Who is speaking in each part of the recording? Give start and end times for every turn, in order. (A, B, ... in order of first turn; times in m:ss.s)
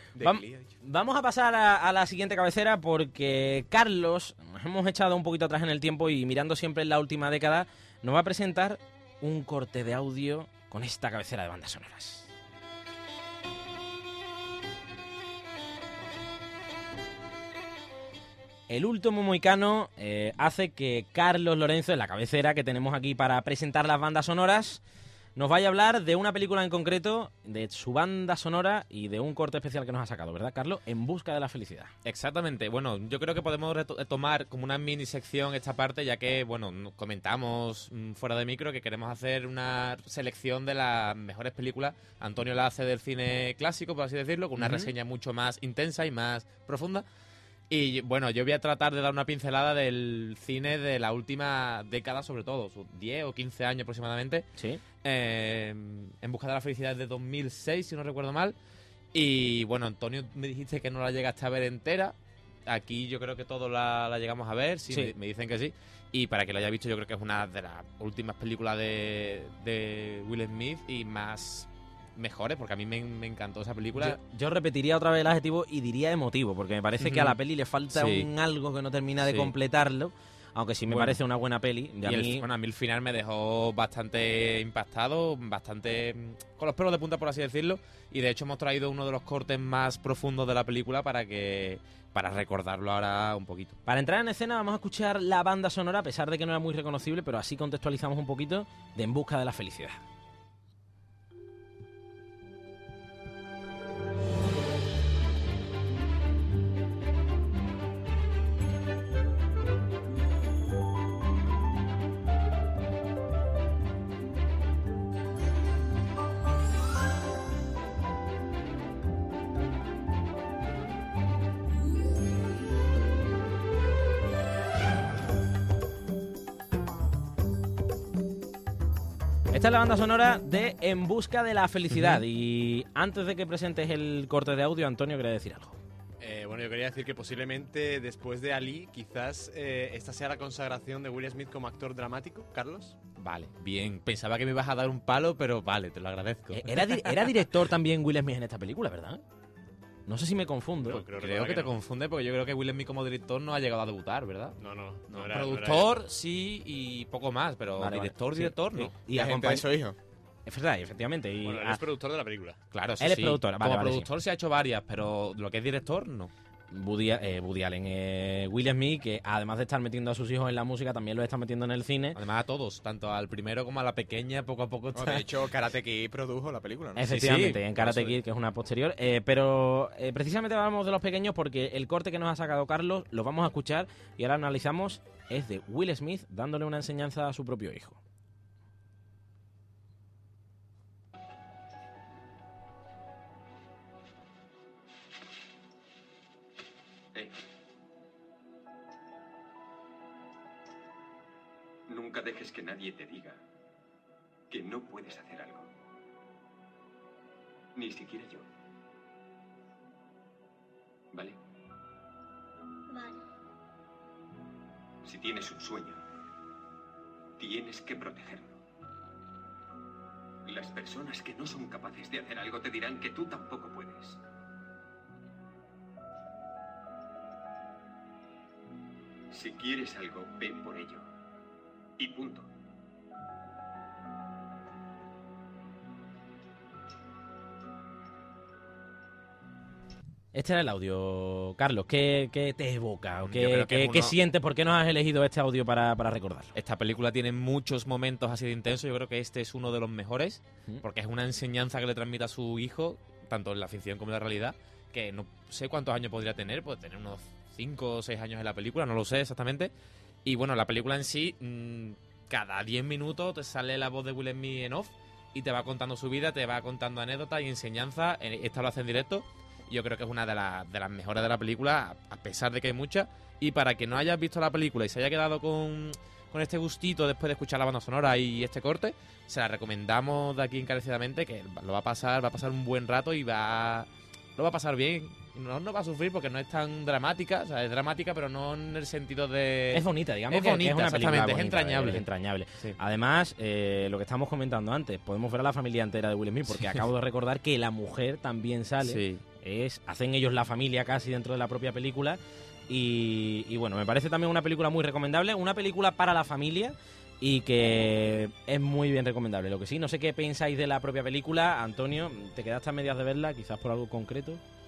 0:00.1-0:00.7 A
0:00.2-0:12.3 B
0:18.7-0:24.8 B
0:25.4-0:31.9 B
0:32.0-0:47.0 C
0:44.6-0:44.9 B
0:47.7-0:54.4 C
0:54.6-0:54.8 B
0:55.0-0:58.5 C
0:59.1-1:02.1 C
1:02.6-1:14.2 C
1:04.9-1:05.1 B
1:14.0-1:22.4 B
1:17.0-1:17.3 C
1:17.9-1:18.3 C
1:19.2-1:19.5 C
1:20.9-1:21.2 C
1:22.0-1:33.8 C
1:33.8-1:40.0 B
2:09.5-2:15.8 B
2:16.2-2:23.0 D
2:23.2-2:27.2 C
2:26.5-2:29.2 B
2:30.1-2:31.0 B
2:30.9-2:31.7 D
2:31.2-2:34.6 C
2:34.6-2:35.9 D
2:35.1-2:39.0 C
2:37.8-2:39.6 B
2:39.1-2:40.0 A
2:40.4-2:41.8 B
2:41.4-2:42.6 D
2:42.7-2:46.3 C
2:43.0-2:44.1 B
2:46.7-2:52.2 B
2:52.1-2:55.3 C
2:54.9-2:57.1 A
2:57.0-3:08.0 B
2:57.0-2:58.1 C
3:17.1-3:17.4 E
3:21.9-3:23.4 E
3:24.5-3:25.7 E
3:27.7-3:28.5 E
3:31.1-3:31.4 E
3:35.0-3:36.0 E
3:37.4-3:38.6 E
3:40.4-3:44.2 E
3:49.3-3:51.1 E
3:52.0-3:52.5 E
4:00.3-4:06.5 B
4:03.2-4:04.1 C
4:06.5-4:19.7 C
4:20.2-4:52.0 C
4:49.7-5:14.4 B
4:58.8-4:59.2 C